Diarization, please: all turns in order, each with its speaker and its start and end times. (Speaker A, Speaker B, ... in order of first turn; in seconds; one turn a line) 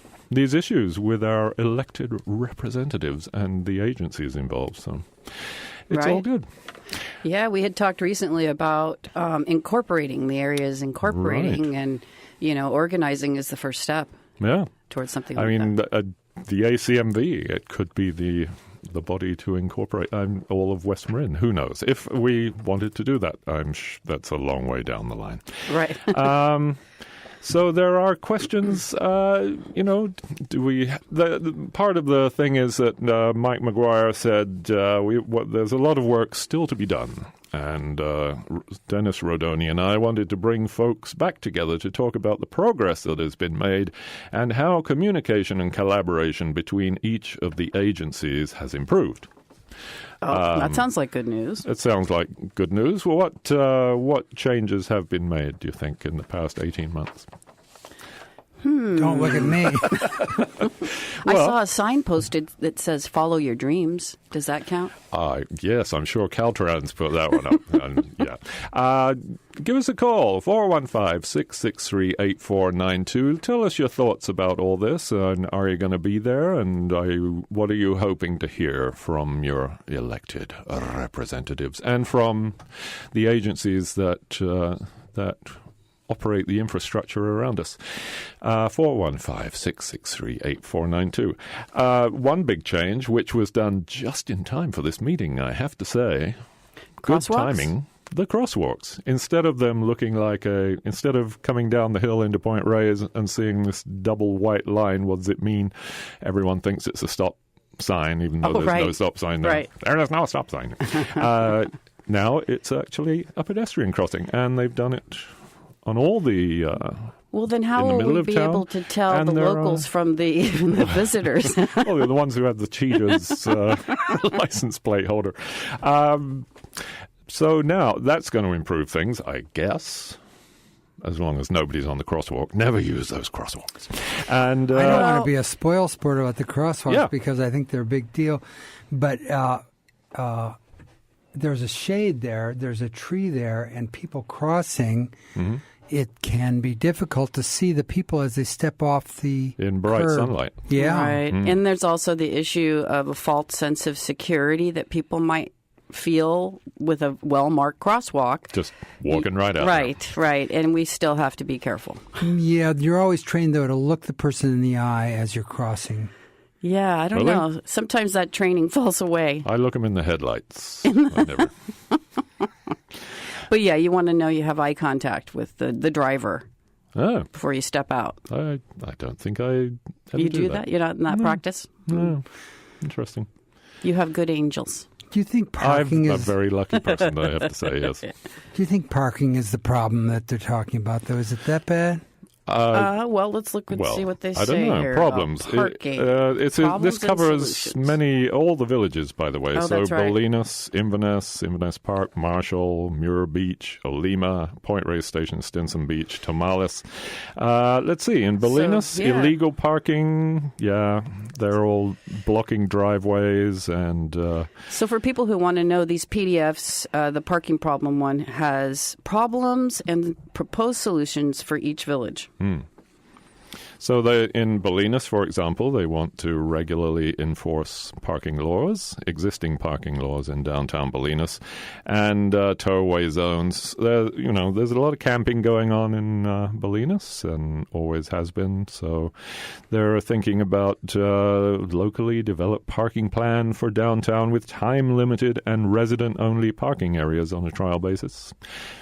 Speaker A: 0.3-5.1
Speaker A: 5.9-6.5
Speaker B: 5.9-6.2
Speaker B: 7.2-14.1
Speaker A: 11.0-11.6
Speaker A: 14.4-14.7
Speaker B: 14.9-15.7
Speaker A: 15.3-26.8
Speaker B: 25.7-26.3
Speaker A: 27.4-49.3
Speaker B: 50.2-51.6
Speaker A: 50.2-50.9
Speaker A: 51.6-57.3
Speaker B: 58.6-60.0
Speaker C: 58.9-59.9
Speaker A: 59.7-61.6
Speaker B: 61.2-64.9
Speaker A: 65.1-87.8
Speaker A: 88.4-96.4
Speaker A: 97.0-115.3
Speaker B: 97.0-97.7
Speaker B: 108.4-109.7
Speaker A: 115.8-117.1
Speaker B: 117.3-122.0
Speaker A: 117.7-119.9
Speaker A: 121.5-126.5
Speaker A: 127.2-130.2
Speaker A: 131.0-135.3
Speaker C: 134.7-139.6
Speaker B: 134.9-135.2
Speaker C: 140.1-140.6
Speaker C: 141.3-145.2
Speaker A: 145.3-145.6
Speaker C: 145.9-151.3
Speaker A: 149.6-150.7
Speaker B: 150.7-158.5
Speaker A: 151.3-151.6
Speaker A: 158.5-159.9
Speaker B: 159.1-162.0
Speaker C: 162.2-166.1
Speaker B: 166.6-169.4
Speaker A: 167.1-167.5
Speaker A: 169.4-171.5
Speaker B: 170.8-172.5
Speaker B: 173.5-176.4
Speaker A: 176.9-177.3
Speaker B: 177.3-178.2
Speaker A: 178.3-182.2
Speaker B: 180.2-182.0
Speaker A: 182.8-183.3
Speaker B: 183.8-184.8
Speaker C: 185.1-186.3
Speaker A: 185.6-188.1
Speaker C: 188.5-192.0
Speaker A: 192.5-192.9
Speaker B: 192.7-197.9
Speaker A: 193.7-214.5
Speaker B: 199.5-200.2
Speaker B: 208.4-209.3
Speaker B: 214.7-222.3
Speaker A: 222.4-222.7
Speaker A: 223.8-248.3